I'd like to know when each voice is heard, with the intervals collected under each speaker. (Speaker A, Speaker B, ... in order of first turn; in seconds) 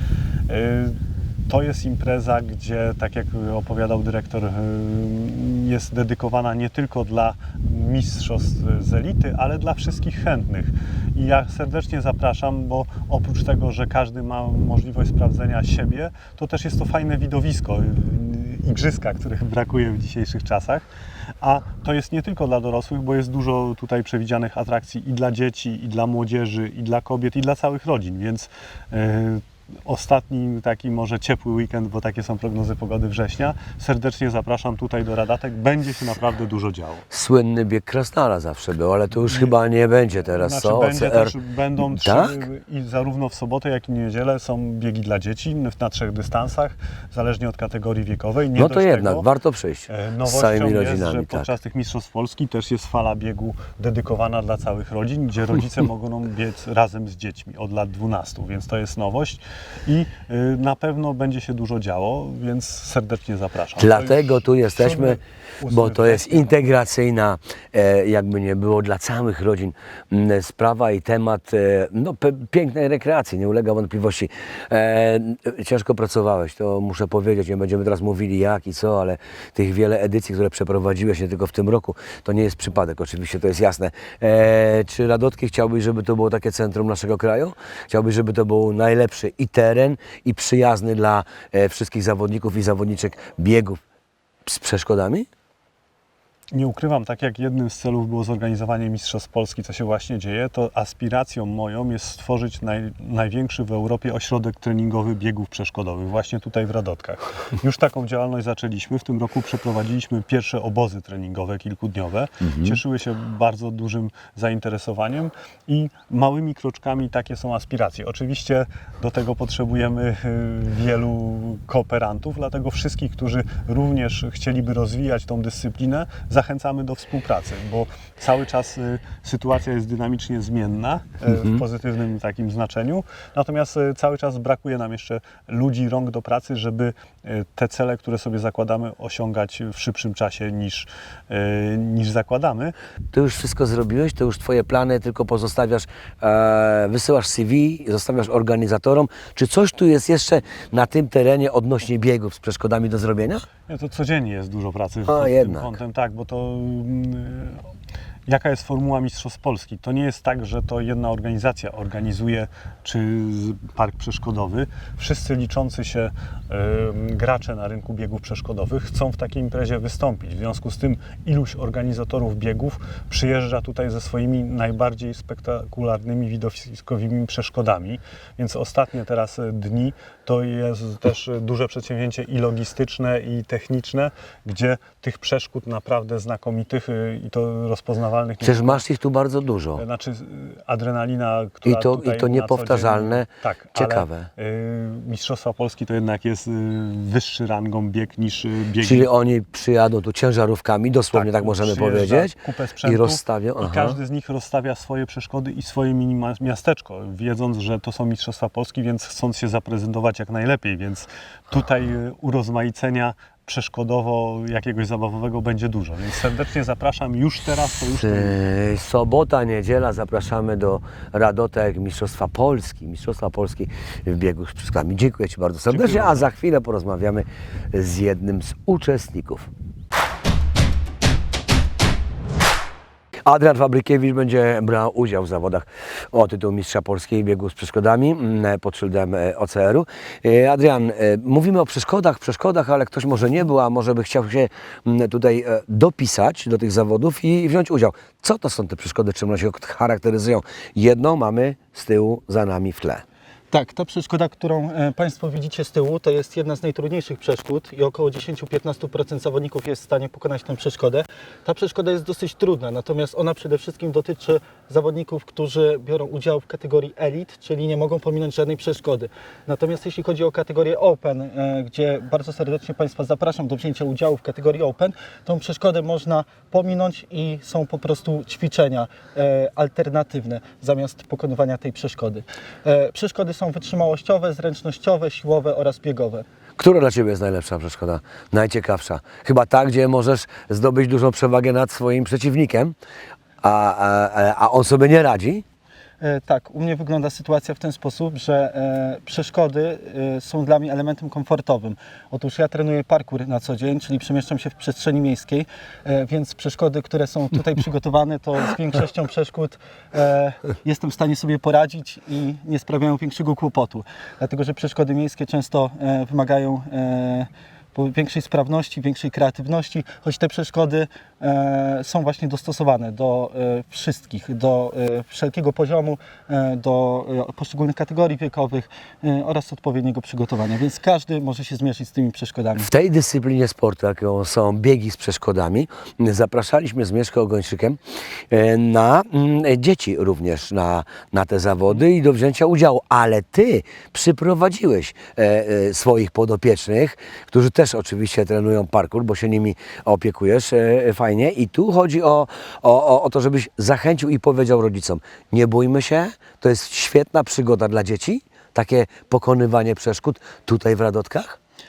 Speaker A: 0.5-20.8, 21.4-37.0, 39.2-39.5, 40.3-49.2, 49.9-66.5, 96.5-142.7, 153.7-157.6, 158.3-188.8, 189.8-199.1, 201.1-218.4, 225.7-226.3
Speaker B: 37.1-42.4, 48.5-51.5, 63.8-93.8, 94.4-95.3, 131.3-131.6, 143.1-153.4, 155.1-155.8, 188.4-189.8, 191.7-194.3, 198.8-204.0, 217.9-229.5, 233.2-253.0, 286.6-292.7, 293.4-295.4, 332.6-337.8, 338.3-361.4
Speaker C: 253.5-286.2, 296.0-332.7